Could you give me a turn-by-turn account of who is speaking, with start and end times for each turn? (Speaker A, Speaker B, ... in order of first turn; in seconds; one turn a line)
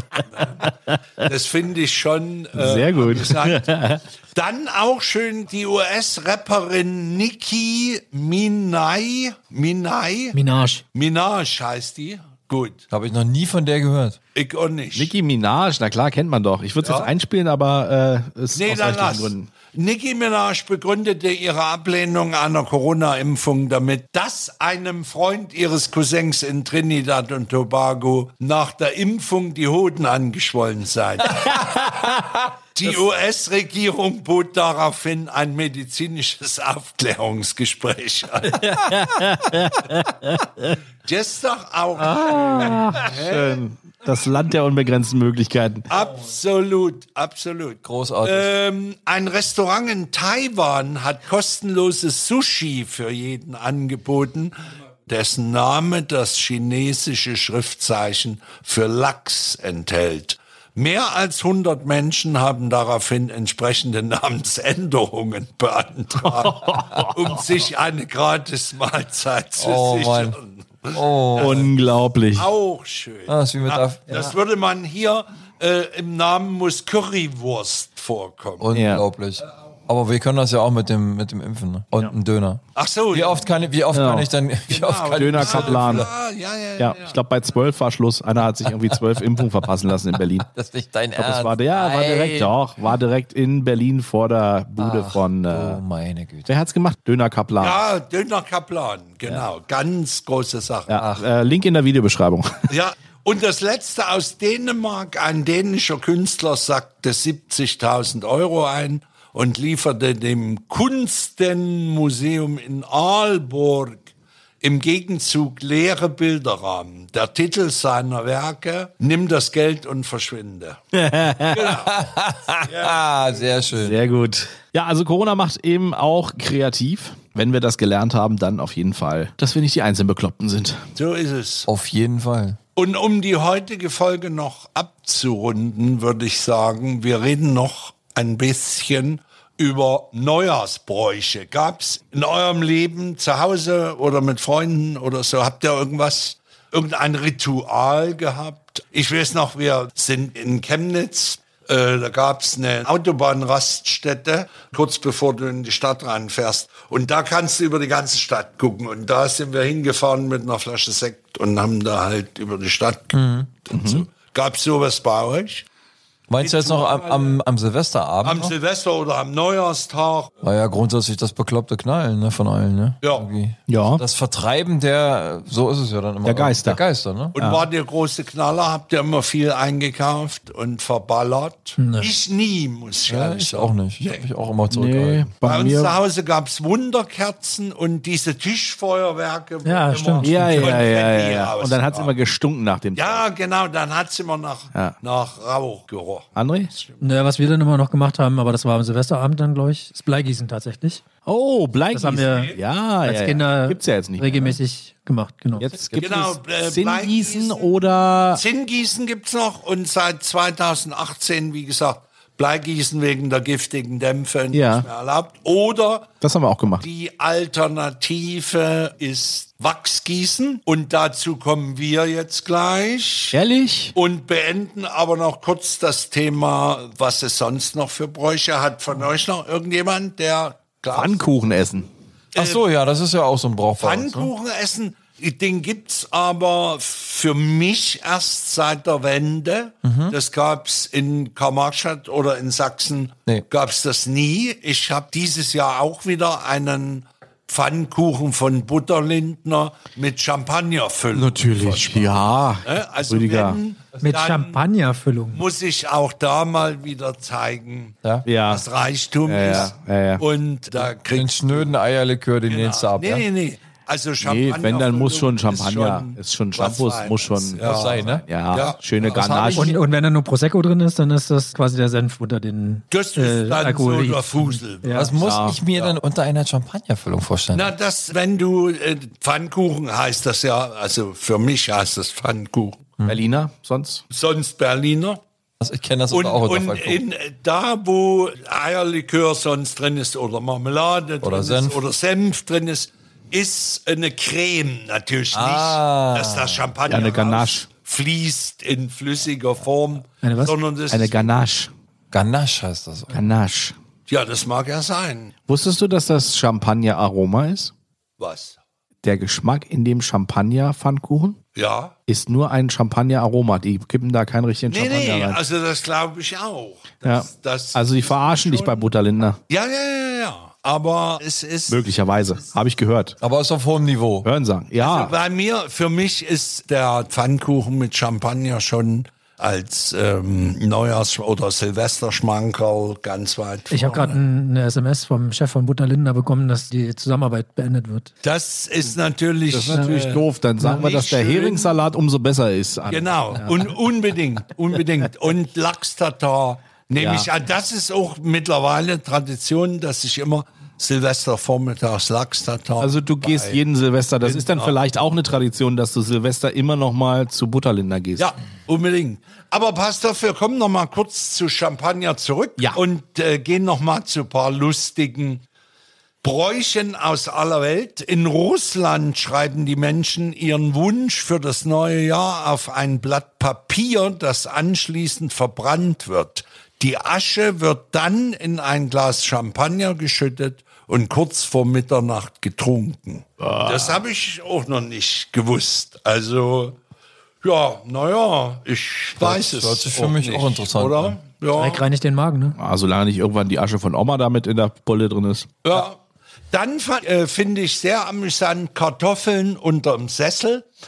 Speaker A: 0.3-0.7
Speaker B: 0.4-1.0
Speaker A: 1.2-3.7
Speaker B: 2.5-4.0
Speaker A: 4.3-10.4
Speaker C: 10.3-10.8
Speaker A: 10.9-12.8
Speaker D: 12.9-14.2
Speaker A: 14.3-15.1
Speaker B: 14.9-19.5
Speaker A: 16.8-17.1
Speaker A: 18.5-31.8
Speaker A: 32.7-38.7
Speaker B: 38.4-40.8
Speaker A: 41.0-43.6
Speaker B: 42.0-45.9
Speaker D: 42.3-42.8
Speaker A: 45.9-54.5
Speaker D: 47.8-48.5
Speaker A: 55.1-71.7
Speaker B: 66.2-67.4
Speaker D: 69.6-70.4
Speaker D: 70.9-71.7
Speaker B: 71.4-72.5
Speaker A: 72.3-78.7
Speaker D: 73.3-74.2
Speaker D: 78.6-86.1
Speaker B: 78.7-79.0
Speaker A: 82.7-83.5
Speaker B: 83.9-84.3
Speaker A: 84.7-87.2
Speaker B: 85.1-86.1
Speaker B: 86.8-90.5
Speaker D: 88.9-89.2
Speaker D: 90.1-92.5
Speaker B: 91.2-95.8
Speaker D: 94.8-96.5
Speaker B: 96.5-97.8
Speaker A: 97.6-101.0
Speaker B: 100.9-102.7
Speaker D: 101.0-101.3
Speaker A: 102.7-114.1
Speaker A: 114.6-120.8
Speaker B: 120.9-121.7
Speaker A: 121.5-122.0
Speaker D: 121.7-124.0
Speaker A: 122.6-123.7
Speaker B: 123.8-130.9
Speaker A: 130.9-131.7
Speaker D: 131.7-132.6
Speaker A: 132.8-165.7
Speaker D: 163.1-163.5
Speaker B: 163.7-164.1
Speaker D: 166.3-168.6
Speaker A: 166.4-167.4
Speaker A: 168.2-170.3
Speaker D: 170.4-177.4
Speaker B: 173.7-174.0
Speaker B: 176.2-176.8
Speaker A: 177.3-184.2
Speaker B: 177.4-177.7
Speaker C: 181.8-182.1
Speaker D: 183.1-185.3
Speaker B: 184.7-185.9
Speaker A: 185.4-192.1
Speaker C: 189.6-190.9
Speaker B: 190.2-193.2
Speaker A: 192.9-197.0
Speaker B: 196.4-196.7
Speaker C: 197.0-201.0
Speaker B: 201.3-204.6
Speaker C: 201.9-205.7
Speaker A: 202.3-202.6
Speaker B: 205.6-208.4
Speaker A: 205.9-207.8
Speaker A: 208.3-216.1
Speaker B: 214.5-214.9
Speaker B: 216.2-216.9
Speaker A: 216.8-223.4
Speaker B: 223.3-223.9
Speaker A: 223.9-231.2
Speaker B: 230.9-231.9
Speaker A: 232.3-232.6
Speaker D: 232.3-234.3
Speaker A: 233.8-254.6
Speaker D: 239.8-240.2
Speaker B: 251.1-253.6
Speaker C: 254.0-255.4
Speaker A: 255.3-261.7
Speaker B: 258.3-258.6
Speaker B: 259.3-260.2
Speaker D: 261.1-263.2
Speaker A: 262.5-268.8
Speaker B: 264.2-269.8
Speaker D: 267.6-268.2
Speaker D: 269.0-269.8
Speaker C: 269.6-275.1
Speaker A: 272.9-275.2
Speaker D: 274.9-277.7
Speaker B: 275.2-275.6
Speaker A: 277.5-282.9
Speaker B: 283.1-284.0
Speaker A: 284.1-285.2
Speaker D: 285.6-287.0
Speaker A: 286.1-301.3
Speaker D: 291.2-291.8
Speaker D: 295.3-296.7
Speaker B: 296.9-297.7
Speaker C: 300.2-300.6
Speaker B: 300.9-301.7
Speaker D: 302.1-303.2
Speaker B: 303.1-303.8
Speaker A: 304.1-305.3
Speaker B: 305.5-307.7
Speaker A: 308.2-308.6
Speaker B: 309.0-311.4
Speaker A: 311.6-311.9
Speaker B: 312.1-315.4
Speaker A: 314.7-318.9
Speaker B: 317.0-319.4
Speaker A: 319.5-321.9
Speaker B: 321.7-323.2
Speaker D: 323.2-324.3
Speaker B: 324.2-325.1
Speaker A: 324.8-334.2
Speaker C: 333.7-338.1
Speaker A: 338.2-341.8
Speaker B: 339.5-343.5
Speaker C: 340.6-340.9
Speaker A: 342.9-353.6
Speaker B: 347.0-347.3
Speaker B: 352.8-358.3
Speaker A: 354.2-354.8
Speaker A: 358.2-365.4
Speaker A: 366.2-386.8
Speaker B: 383.4-384.0
Speaker A: 387.4-391.9
Speaker D: 389.2-391.2
Speaker C: 391.5-392.6
Speaker B: 392.6-395.5
Speaker A: 395.6-396.0
Speaker A: 396.5-400.7